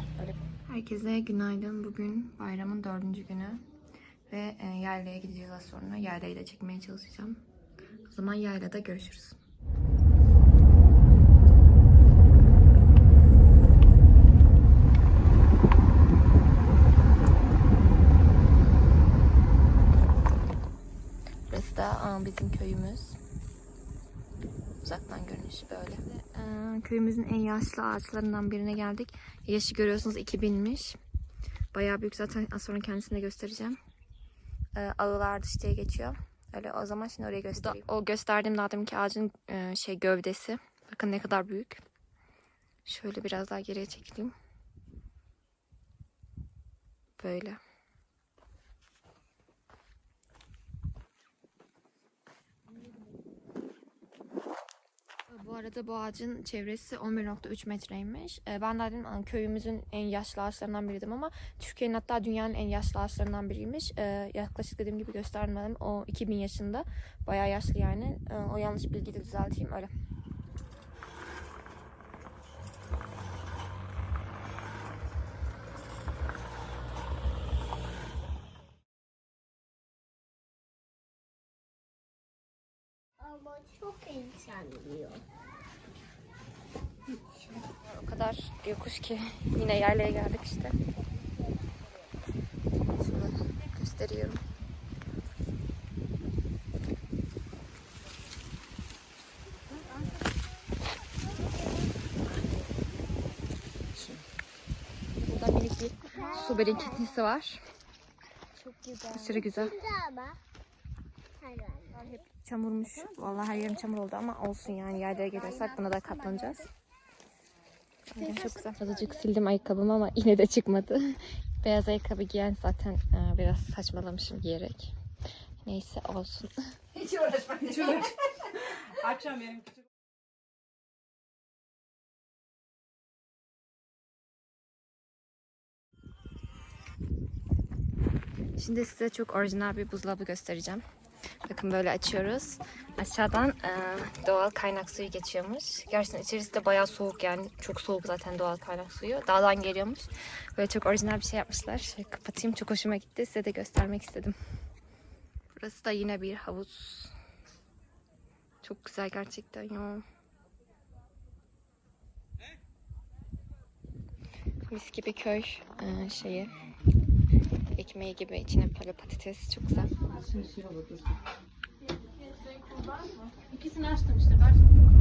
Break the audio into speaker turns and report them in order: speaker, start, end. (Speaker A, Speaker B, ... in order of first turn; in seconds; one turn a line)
Speaker A: 0.2-3.6
Speaker A: 4.3-7.4
Speaker A: 8.0-9.4
Speaker A: 21.5-23.2
Speaker A: 24.8-31.0
Speaker A: 31.7-33.8
Speaker A: 34.7-41.8
Speaker A: 42.8-44.3
Speaker A: 47.2-47.6
Speaker A: 55.3-69.9
Speaker B: 83.2-85.2
Speaker A: 87.7-90.8
Speaker A: 93.0-94.4
Speaker A: 105.2-107.6
Speaker B: 106.1-107.2
Speaker B: 108.6-110.4
Speaker A: 109.1-109.8
Speaker B: 111.4-112.0
Speaker A: 111.9-116.7
Speaker A: 118.1-124.9
Speaker A: 125.6-127.5
Speaker C: 127.7-128.1
Speaker C: 129.2-129.7
Speaker A: 138.6-140.8
Speaker A: 141.4-154.3
Speaker A: 155.6-157.1
Speaker A: 158.6-160.0
Speaker A: 164.6-166.5
Speaker A: 167.7-170.0
Speaker C: 170.5-171.0
Speaker C: 172.5-174.7